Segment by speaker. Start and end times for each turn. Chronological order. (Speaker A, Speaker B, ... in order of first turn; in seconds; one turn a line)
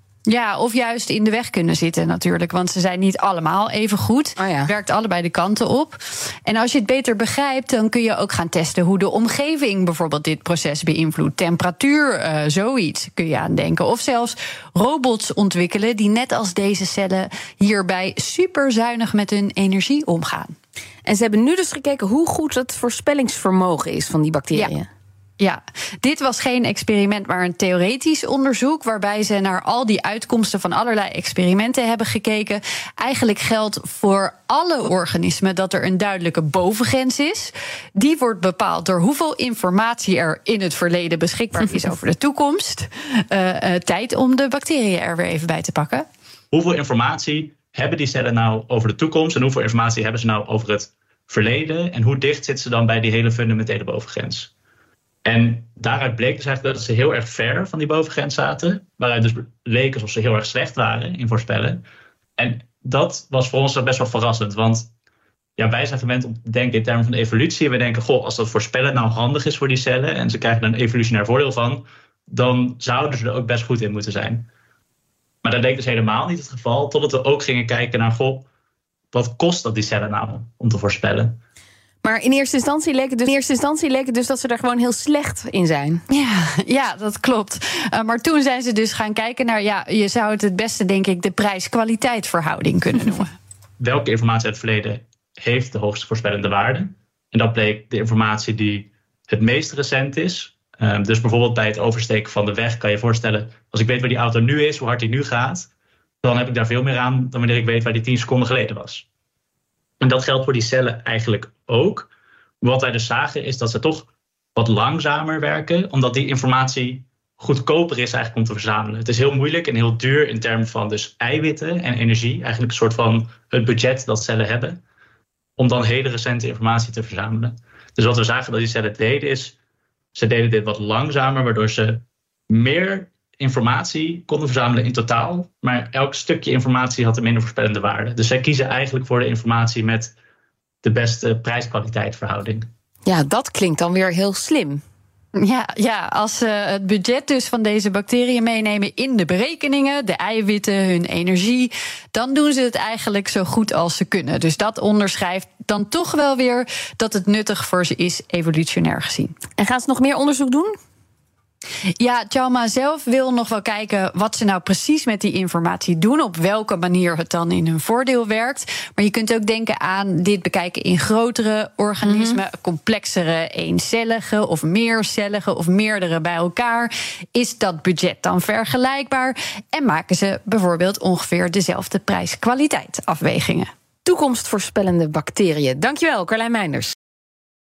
Speaker A: 0.3-20.6
Speaker B: 4.4-4.7
Speaker B: 21.1-24.9
Speaker A: 25.4-46.1
Speaker C: 46.5-54.5
Speaker C: 55.2-61.8
Speaker C: 62.4-64.9
Speaker C: 65.6-74.5
Speaker C: 75.4-78.5
Speaker C: 79.1-81.4
Speaker B: 82.0-86.0
Speaker A: 86.1-93.3
Speaker C: 93.8-105.7
Speaker C: 106.2-109.0
Speaker C: 110.0-112.1
Speaker C: 112.6-124.8
Speaker C: 125.6-129.6
Speaker C: 130.2-140.2
Speaker C: 140.8-142.7
Speaker B: 143.1-144.8
Speaker A: 145.4-159.4
Speaker B: 159.6-160.8
Speaker A: 162.0-183.7
Speaker B: 172.1-172.4
Speaker B: 184.1-186.9